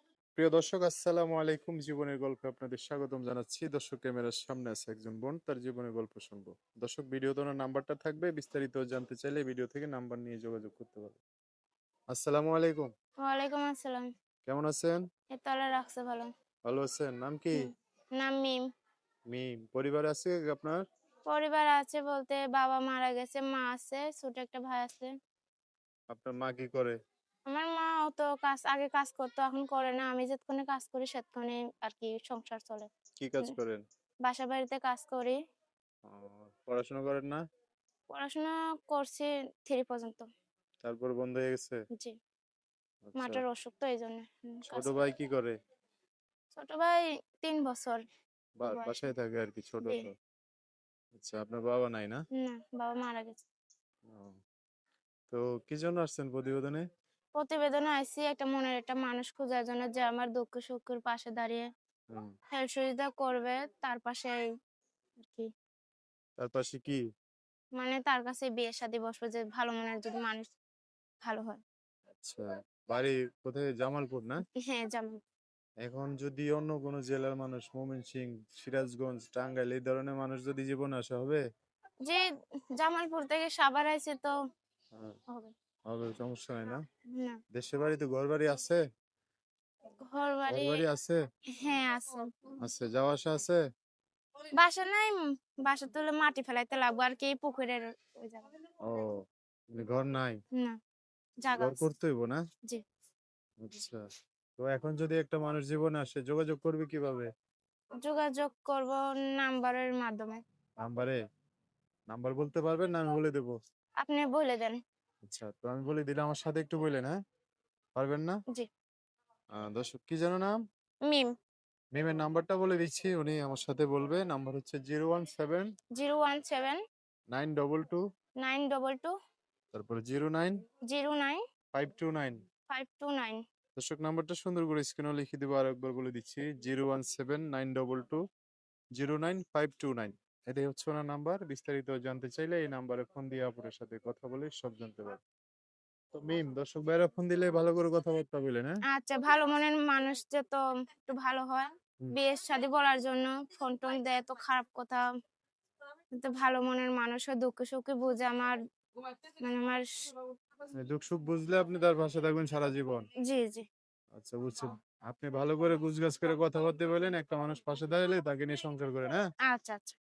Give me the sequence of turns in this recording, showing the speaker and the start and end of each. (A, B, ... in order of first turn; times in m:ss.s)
0:00.4-0:11.2 A
0:12.1-0:12.9 A
0:13.2-0:14.1 B
0:14.5-0:15.0 A
0:15.3-0:16.3 B
0:16.7-0:17.7 A
0:17.6-0:18.6 B
0:19.3-0:20.8 A
0:21.3-0:25.1 B
0:26.1-0:27.0 A
0:27.5-0:32.9 B
0:33.2-0:33.8 A
0:34.2-0:35.4 B
0:36.1-0:37.4 A
0:38.1-0:40.2 B
0:40.8-0:41.8 A
0:43.0-0:43.4 A
0:43.2-0:45.0 B
0:44.7-0:45.5 A
0:46.5-0:48.0 B
0:48.6-0:50.1 A
0:48.7-0:49.1 B
0:51.2-0:52.2 A
0:52.4-0:53.4 B
0:54.1-0:54.4 A
0:55.3-0:56.8 A
0:57.4-1:01.7 B
1:02.6-1:04.4 B
1:05.2-1:05.5 B
1:06.4-1:07.0 A
1:07.8-1:10.5 B
1:11.2-1:11.6 B
1:12.2-1:14.4 A
1:14.6-1:15.2 B
1:15.8-1:21.4 A
1:22.8-1:24.3 B
1:25.9-1:26.8 A
1:27.6-1:28.8 A
1:30.1-1:30.8 B
1:30.5-1:31.2 A
1:31.6-1:32.3 B
1:32.6-1:33.6 A
1:34.6-1:38.5 B
1:38.9-1:39.1 A
1:39.8-1:40.4 A
1:41.4-1:41.8 B
1:41.6-1:42.4 A
1:43.6-1:44.0 A
1:44.6-1:47.3 A
1:48.0-1:50.4 B
1:50.8-1:51.2 A
1:52.1-1:53.6 A
1:54.0-1:54.8 B
1:55.3-1:57.1 A
1:58.0-1:58.4 A
1:59.6-2:00.6 A
2:02.0-2:05.7 A
2:06.0-2:06.8 B
2:07.3-2:08.0 A
2:08.4-2:09.1 B
2:09.8-2:10.6 A
2:10.9-2:11.4 B
2:11.8-2:12.4 A
2:12.7-2:13.4 B
2:13.8-2:18.2 A
2:19.0-2:25.2 A
2:26.1-2:28.8 A
2:28.9-2:35.0 B
2:36.2-2:38.6 B
2:39.4-2:39.9 B
2:40.8-2:43.1 A
2:43.2-2:43.6 B
2:44.2-2:49.2 A
2:49.5-2:50.0 B